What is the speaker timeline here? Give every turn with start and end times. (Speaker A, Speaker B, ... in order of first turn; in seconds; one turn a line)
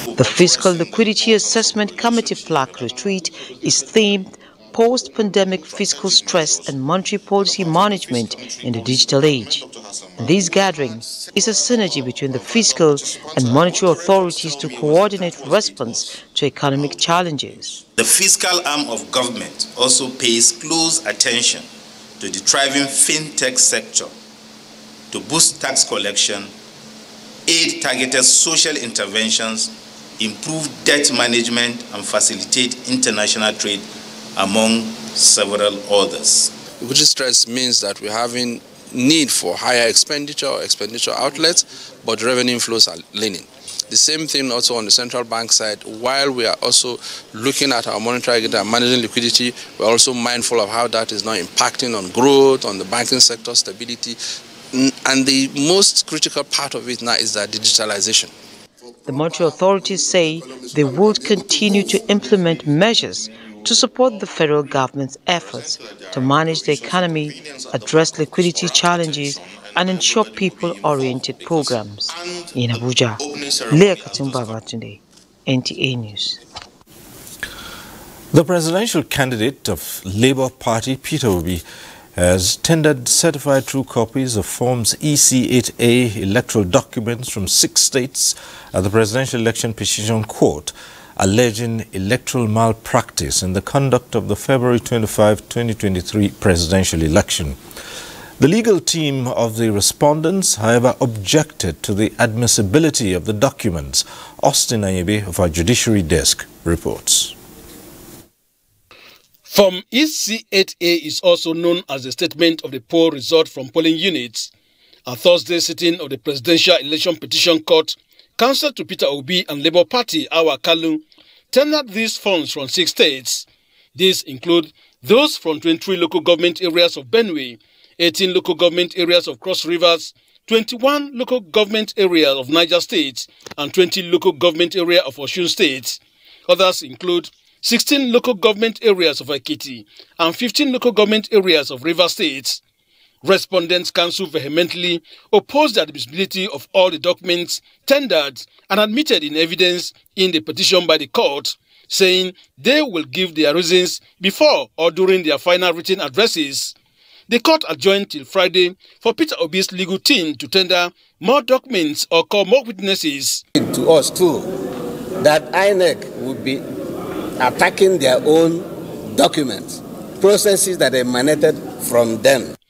Speaker A: 0.1-9.6
Speaker A: 10.2-17.8
Speaker B: 18.0-21.7
Speaker B: 22.2-24.1
Speaker B: 25.1-26.5
Speaker B: 27.4-36.5
Speaker C: 36.8-54.2
Speaker C: 54.7-58.3
Speaker A: 59.1-76.4
Speaker D: 78.3-81.6
Speaker D: 82.2-97.6
Speaker D: 98.4-107.3
Speaker E: 109.5-114.5
Speaker E: 115.0-123.4
Speaker E: 124.0-142.6
Speaker E: 143.2-156.7
Speaker E: 157.3-163.4
Speaker F: 163.6-164.4
Speaker F: 165.2-166.6
Speaker F: 167.4-168.6
Speaker F: 169.2-169.7
Speaker F: 170.2-172.5